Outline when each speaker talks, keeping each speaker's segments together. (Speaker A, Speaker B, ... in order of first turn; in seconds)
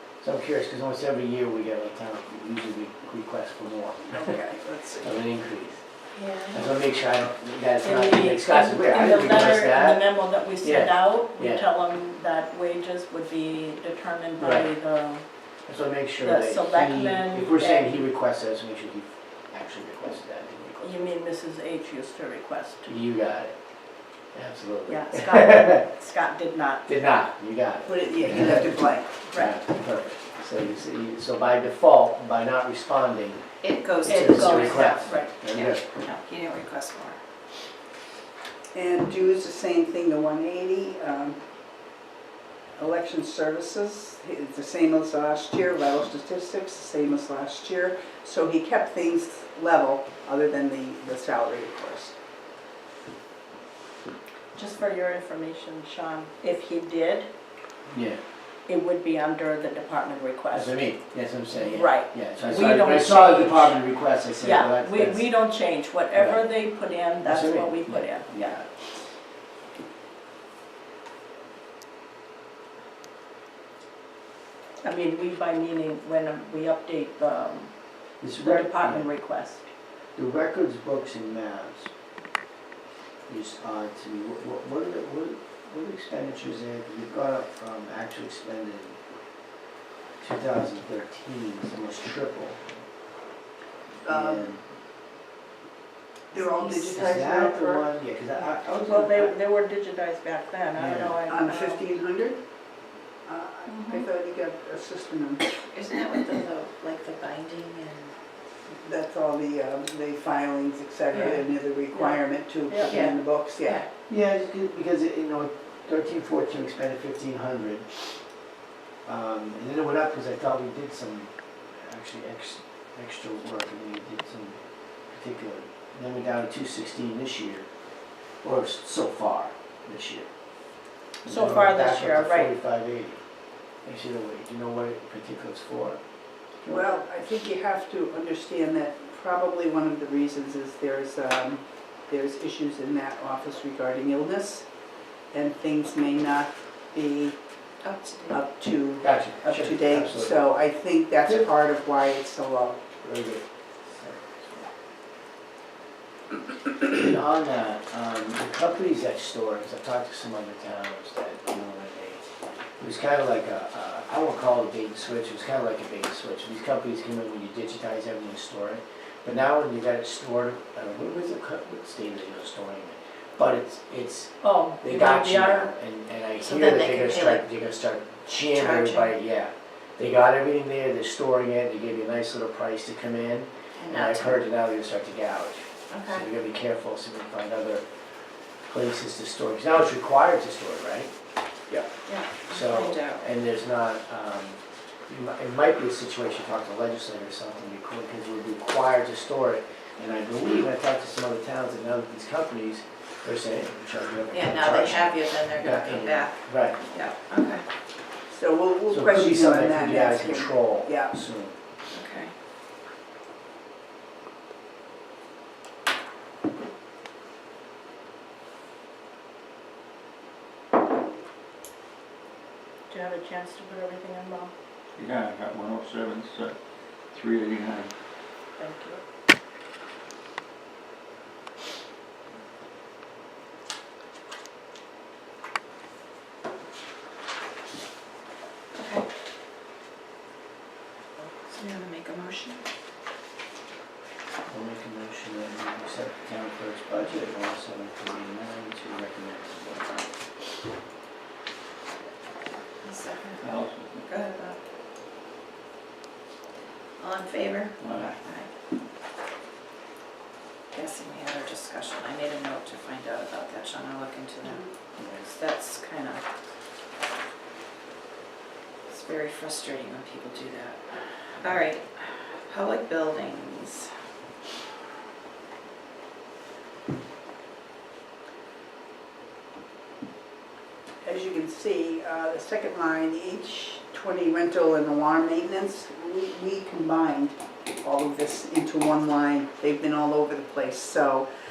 Speaker A: 0.2-4.3, 5.0-5.8, 6.5-11.7, 14.4-14.7, 15.7-21.0, 22.9-23.5, 24.3-25.8, 26.9-28.8, 29.3-33.5, 34.0-35.9, 57.9-58.2, 60.5-65.3, 66.1-66.5, 67.2-68.7, 78.2-79.1, 80.2-81.9, 83.3-89.0, 90.2-92.7, 94.1-94.6, 96.9-99.4, 100.8-101.2, 114.1-118.0, 119.0-127.7, 128.4-130.3, 131.2-133.2, 133.8-136.0, 149.0-150.3, 153.0-154.6, 156.8-162.2, 162.8-187.8, 188.7-191.1, 192.5-206.8, 208.9-211.5, 244.5-250.0, 265.0-265.2
Speaker B: 4.1-5.2, 27.9-29.1, 38.7-41.4, 42.8-52.2, 94.0-94.5, 96.3-97.9, 101.3-102.4, 103.3-105.5, 108.8-113.8, 136.7-144.7, 145.3-147.4, 148.3-152.8, 208.3-211.2, 281.0-291.3
Speaker C: 6.2-6.6, 33.6-37.2, 96.3-97.0, 105.7-108.1, 112.9-113.9, 147.8-148.4, 176.4-177.4, 178.5-179.1, 183.8-184.5, 185.9-186.3, 192.1-193.3, 204.3-207.7, 211.9-212.3, 238.8-239.1, 241.5-242.6, 252.8-254.6, 257.0-258.5, 260.7-266.2, 268.9-270.8, 271.4-273.9
Speaker D: 7.8-15.2, 16.2-18.0, 20.8-22.9, 24.9-26.9, 29.3-29.6, 34.0-35.3, 54.5-57.3, 58.7-60.8, 61.5-68.6, 74.8-77.7, 78.4-79.7, 98.7-101.8, 103.7-104.0, 111.9-113.0, 131.2-132.5, 174.4-175.7, 222.9-224.5, 228.6-229.0
Speaker E: 225.0-226.6, 227.1-227.9, 253.4-254.1, 257.8-258.2